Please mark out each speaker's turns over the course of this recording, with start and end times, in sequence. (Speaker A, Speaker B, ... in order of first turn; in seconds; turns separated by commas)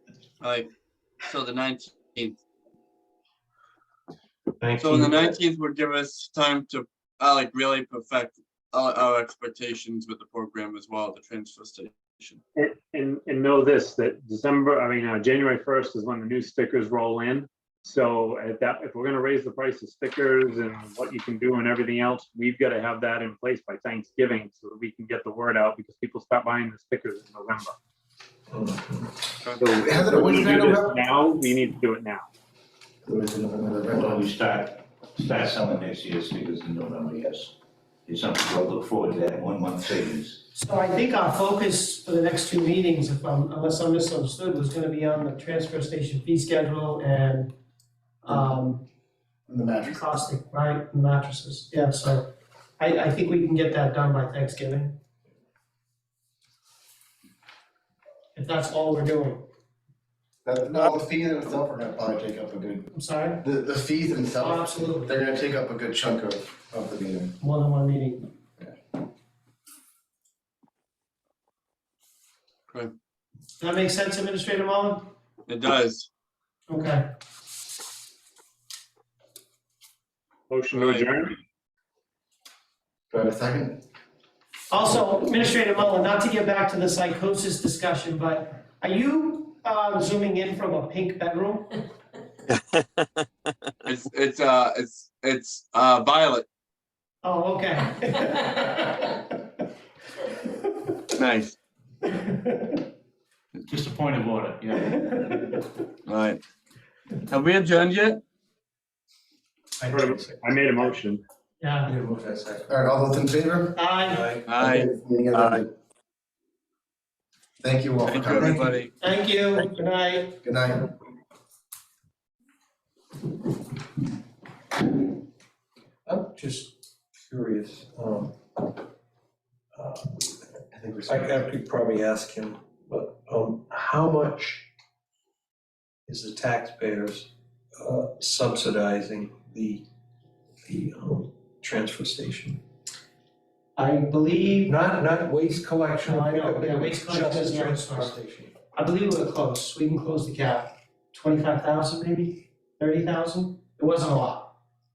Speaker A: 0.4-0.7, Speaker A: 1.2-2.4, Speaker B: 4.6-5.1, Speaker A: 4.8-12.4, Speaker C: 12.6-27.7, Speaker D: 28.5-29.1, Speaker C: 29.5-32.2, Speaker E: 29.7-31.0, Speaker E: 33.0-34.3, Speaker F: 33.9-40.4, Speaker B: 40.5-47.5, Speaker B: 48.2-48.8, Speaker E: 49.5-50.0, Speaker B: 49.8-52.3, Speaker B: 52.8-55.0, Speaker B: 58.3-59.5, Speaker E: 60.4-67.3, Speaker B: 62.9-63.4, Speaker B: 64.4-65.2, Speaker B: 67.4-68.3, Speaker B: 73.6-75.1, Speaker A: 75.5-76.1, Speaker B: 76.7-77.1, Speaker C: 80.5-81.3, Speaker A: 80.7-81.1, Speaker E: 83.1-83.8, Speaker B: 84.7-91.8, Speaker A: 93.8-96.5, Speaker B: 97.2-99.2, Speaker A: 101.2-101.5, Speaker B: 102.1-102.8, Speaker F: 103.7-104.9, Speaker A: 106.0-106.4, Speaker A: 107.3-108.2, Speaker D: 109.8-110.4, Speaker C: 109.9-111.2, Speaker B: 111.6-111.9, Speaker D: 111.8-112.8, Speaker E: 112.7-113.8, Speaker B: 113.8-114.3, Speaker D: 114.0-114.4, Speaker A: 114.5-115.6, Speaker E: 114.6-115.7, Speaker E: 117.6-118.7, Speaker A: 118.0-118.9, Speaker B: 119.0-120.4, Speaker E: 120.4-120.9, Speaker D: 126.0-128.3, Speaker D: 129.7-134.7, Speaker E: 130.7-131.3, Speaker D: 136.1-139.8, Speaker D: 140.6-142.6, Speaker B: 143.8-144.8, Speaker D: 144.7-148.5, Speaker B: 146.0-148.1, Speaker B: 148.7-154.5